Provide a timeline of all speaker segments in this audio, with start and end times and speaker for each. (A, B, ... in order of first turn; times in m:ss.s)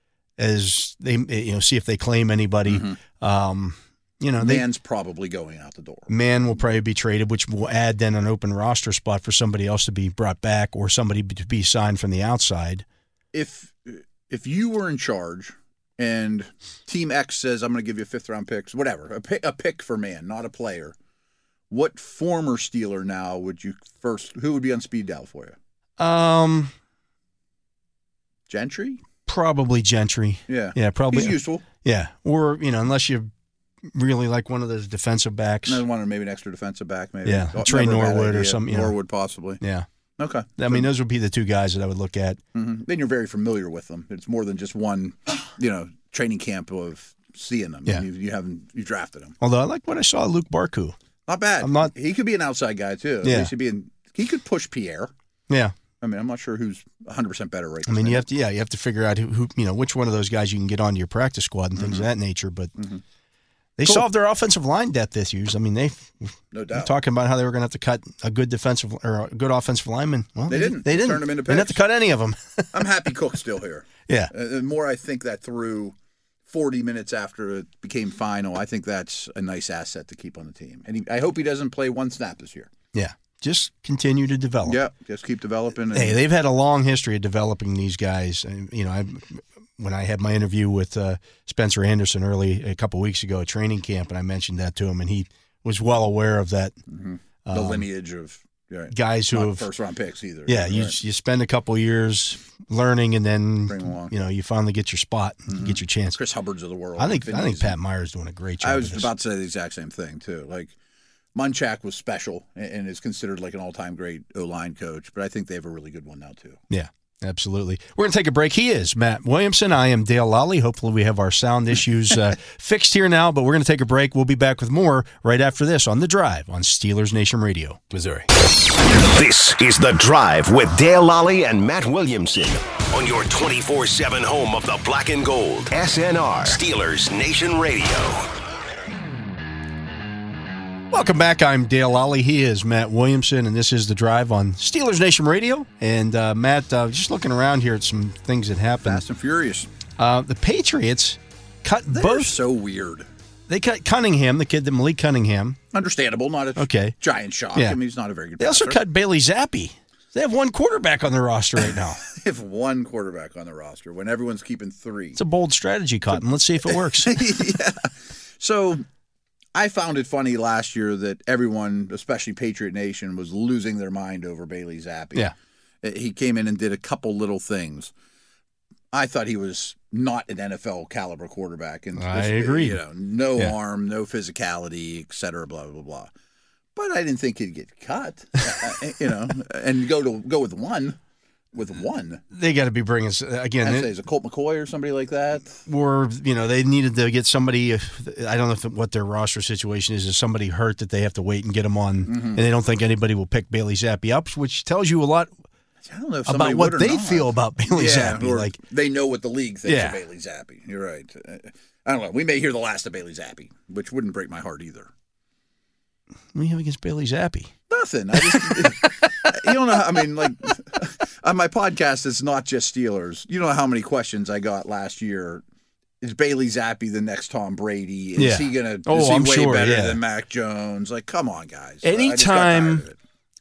0:00.4-0:04.6 A
0:02.7-0:03.0 B
0:04.4-0:06.1 B
0:06.1-0:12.8 A
0:13.3-0:21.0 B
0:21.7-0:25.6 B
0:26.0-0:26.7 A
0:28.5-0:29.0 B
0:29.3-0:33.3 A
0:30.5-0:31.6 B
0:33.8-0:35.8 A
0:35.7-0:39.6 B
0:37.2-0:39.0 A
0:39.6-0:39.9 A
0:40.2-0:40.9 B
0:40.6-0:42.4 A
0:42.5-0:49.4 B
0:49.4-0:51.0 A
0:51.3-0:55.1 B
0:51.6-0:51.9 A
0:53.2-0:53.5 A
0:55.5-0:55.8 A
0:56.0-0:58.3 B
0:57.9-1:02.7 A
1:01.8-1:02.1 B
1:03.8-1:12.8 A
1:06.5-1:06.9 B
1:10.5-1:11.8 B
1:12.7-1:16.0 B
1:16.5-1:22.7 B
1:22.9-1:24.8 A
1:24.6-1:26.2 B
1:25.9-1:36.8 A
1:36.9-1:41.0 B
1:37.5-1:37.9 A
1:38.9-1:39.7 A
1:40.5-1:46.2 A
1:43.7-1:44.1 B
1:45.5-1:47.8 B
1:47.0-1:49.1 A
1:48.6-1:50.7 B
1:51.4-1:56.6 B
1:56.7-2:08.0 A
2:08.8-2:18.3 C
2:20.9-2:29.0 A
2:28.8-2:29.7 B
2:30.0-2:32.4 A
2:31.9-2:33.1 B
2:33.5-2:35.6 A
2:35.7-2:38.8 B
2:36.6-2:37.0 A
2:38.4-2:42.0 A
2:42.0-2:45.2 B
2:45.2-2:47.2 A
2:46.2-2:48.8 B
2:49.6-2:55.3 B
2:55.8-2:57.9 B
2:58.9-3:06.1 B
3:02.0-3:02.8 A
3:06.8-3:11.0 B
3:11.5-3:12.2 B
3:12.3-3:13.9 A
3:13.6-3:15.6 B
3:15.7-3:25.3 A
3:22.1-3:22.4 B
3:25.8-3:34.9 B
3:26.3-3:28.6 A
3:29.6-3:30.0 A
3:36.3-3:37.5 A
3:37.7-3:45.4 B
3:38.2-3:39.2 A
3:40.2-3:40.5 A
3:46.0-3:53.0 B
3:48.2-3:50.0 A
3:51.8-3:52.8 A